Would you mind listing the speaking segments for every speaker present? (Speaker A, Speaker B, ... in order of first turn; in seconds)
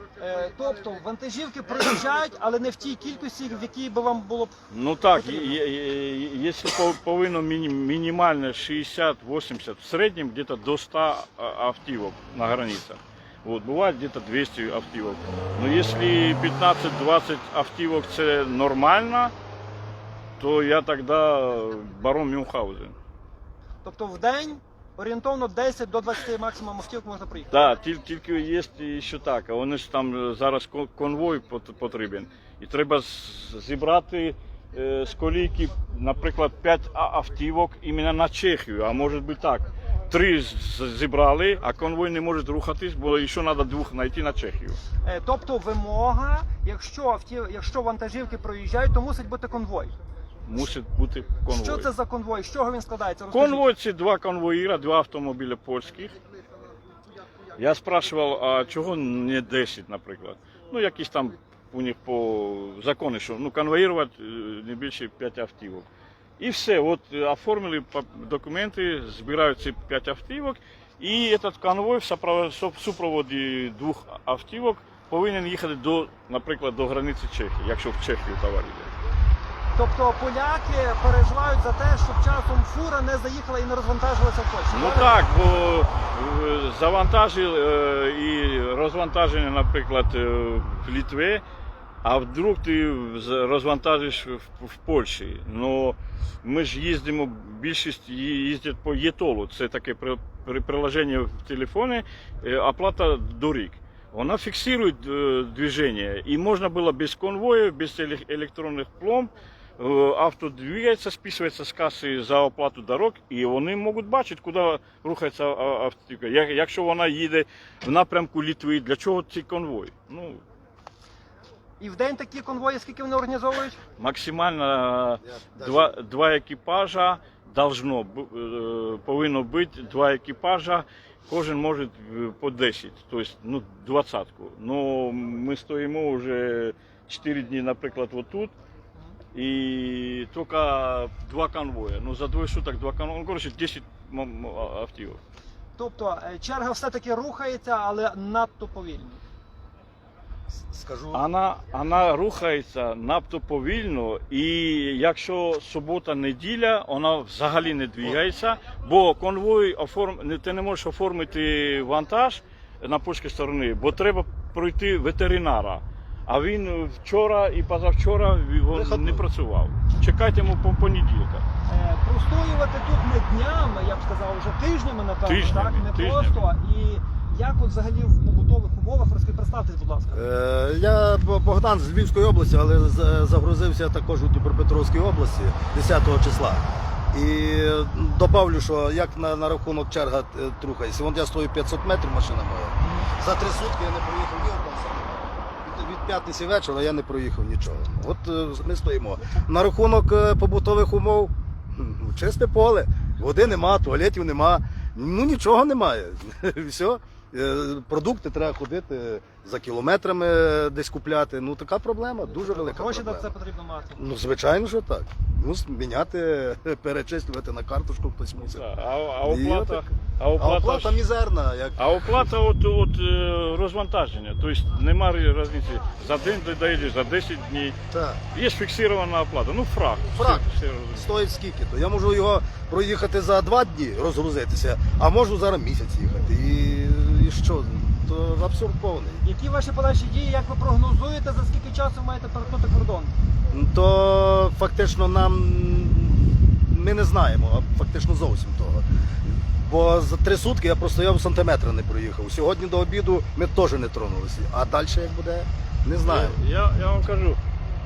Speaker A: 0.2-4.5, 5.1-5.6, 23.8-27.6, 45.0-49.9, 51.5-53.6, 79.7-85.2, 121.8-123.8, 145.8-149.2, 171.7-180.2, 192.8-193.1, 212.3-214.0, 239.2-243.1
Speaker B: 4.7-19.3, 20.4-22.9, 27.5-44.8, 50.4-51.9, 53.3-56.2, 57.6-65.9, 66.4-78.9, 84.7-91.4, 92.0-120.4, 124.0-138.5, 139.3-145.2, 151.1-171.4, 175.2-176.4, 218.4-221.0, 221.8-227.8, 228.3-231.2, 256.0-257.4
Speaker C: 125.2-125.9, 150.5-151.2, 168.7-169.2, 180.1-213.3, 214.0-218.6, 219.2-222.3, 227.9-228.2, 230.1-239.2, 243.5-256.4